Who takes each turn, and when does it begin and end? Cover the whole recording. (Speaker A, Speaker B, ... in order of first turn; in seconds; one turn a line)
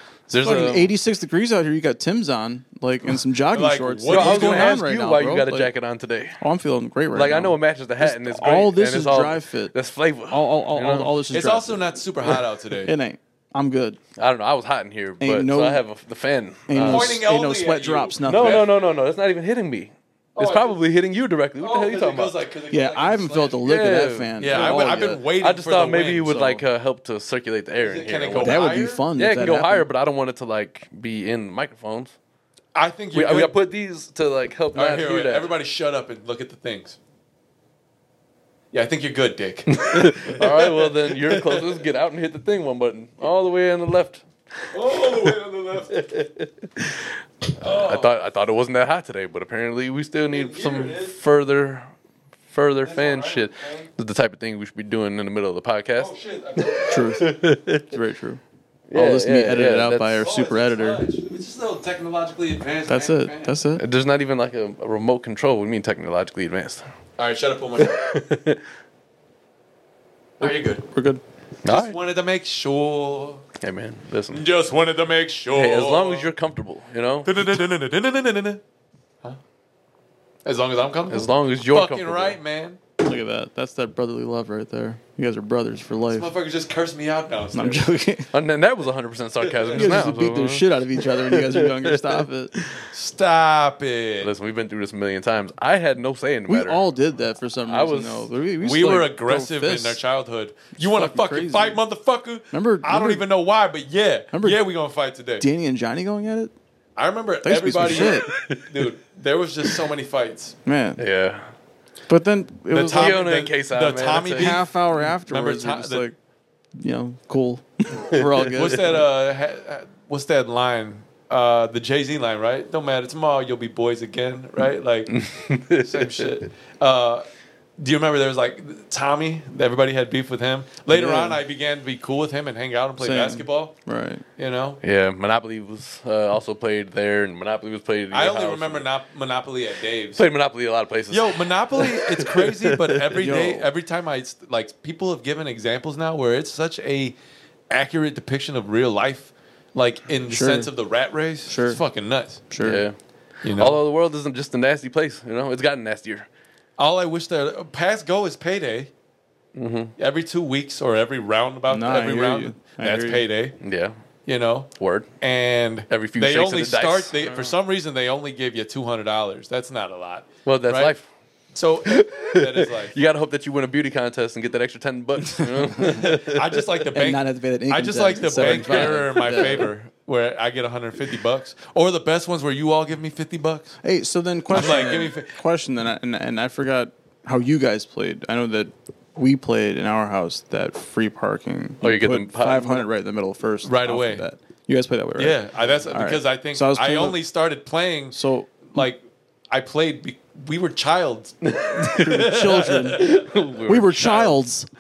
Speaker A: 0.3-0.9
Speaker B: 0.3-5.7
Speaker C: 3.5-4.8
Speaker A: 4.1-6.4
Speaker B: 6.4-9.8
Speaker A: 7.1-11.2
Speaker B: 10.3-14.0
Speaker C: 11.3-12.9
Speaker A: 14.2-17.2
Speaker B: 15.2-15.8
Speaker B: 16.7-18.7
Speaker C: 16.8-18.8
Speaker A: 18.2-22.4
Speaker C: 20.4-20.8
Speaker C: 21.6-23.6
Speaker B: 22.7-25.2
Speaker A: 23.6-32.1
Speaker C: 24.4-26.6
Speaker C: 27.8-29.1
Speaker B: 28.4-29.9
Speaker C: 32.8-33.6
Speaker A: 33.1-35.5
Speaker C: 34.8-37.0
Speaker C: 38.7-41.8
Speaker A: 39.7-44.2
Speaker C: 44.7-46.1
Speaker A: 44.9-45.3
Speaker A: 45.9-51.9
Speaker C: 47.6-48.1
Speaker C: 50.3-51.2
Speaker A: 52.5-57.9
Speaker C: 52.8-53.9
Speaker C: 56.0-57.1
Speaker B: 56.9-58.4
Speaker A: 58.9-60.2
Speaker B: 58.9-61.1
Speaker C: 60.1-63.6
Speaker B: 62.9-63.8
Speaker A: 63.8-66.8
Speaker C: 67.2-68.1
Speaker A: 67.8-68.6
Speaker C: 70.4-70.8
Speaker B: 70.9-71.2
Speaker A: 71.6-72.0
Speaker C: 71.7-73.5
Speaker A: 73.6-74.4
Speaker C: 74.3-76.3
Speaker A: 75.5-77.4
Speaker C: 77.2-78.6
Speaker C: 80.5-82.8
Speaker A: 81.1-82.4
Speaker B: 83.0-86.3
Speaker C: 86.1-87.8
Speaker B: 87.5-88.3
Speaker A: 88.3-92.8
Speaker C: 89.5-89.8
Speaker B: 89.7-92.5
Speaker C: 92.9-94.3
Speaker A: 94.2-96.8
Speaker B: 96.5-100.0
Speaker A: 97.7-98.3
Speaker C: 98.6-105.5
Speaker B: 100.8-101.8
Speaker B: 102.5-103.2
Speaker B: 104.3-104.6
Speaker B: 105.4-106.5
Speaker C: 107.0-110.6
Speaker B: 107.4-108.3
Speaker A: 108.0-108.9
Speaker B: 110.7-111.0
Speaker A: 111.0-111.5
Speaker B: 112.1-113.2
Speaker C: 112.7-116.1
Speaker A: 112.8-114.6
Speaker B: 114.4-116.2
Speaker B: 116.8-119.0
Speaker C: 118.5-125.2
Speaker A: 125.1-126.3
Speaker C: 125.7-127.2
Speaker C: 127.8-133.7
Speaker B: 130.9-131.4
Speaker B: 133.0-134.2
Speaker C: 134.4-134.8
Speaker A: 134.8-138.9
Speaker C: 138.1-140.2
Speaker A: 140.2-143.1
Speaker C: 141.1-147.2
Speaker B: 143.1-143.7
Speaker C: 147.7-152.5
Speaker B: 150.3-150.7
Speaker B: 151.5-151.8
Speaker B: 152.5-152.8
Speaker A: 152.6-153.0
Speaker C: 153.4-153.8
Speaker A: 153.6-156.3
Speaker C: 156.8-158.9
Speaker A: 159.6-159.9
Speaker C: 160.0-163.6
Speaker B: 161.7-163.3
Speaker A: 163.6-164.0
Speaker C: 164.3-170.9
Speaker A: 164.8-165.1
Speaker A: 165.9-167.2
Speaker A: 170.5-171.1
Speaker C: 171.5-173.0
Speaker A: 171.8-176.7
Speaker B: 175.6-176.0
Speaker C: 175.8-183.8
Speaker B: 176.9-179.7
Speaker A: 178.4-179.7
Speaker B: 183.8-197.2
Speaker C: 184.5-185.4
Speaker A: 191.8-192.9
Speaker C: 193.6-194.2
Speaker C: 195.2-204.4
Speaker B: 198.1-198.9
Speaker A: 201.4-202.2
Speaker B: 201.9-203.1
Speaker A: 202.9-203.9
Speaker B: 203.7-204.7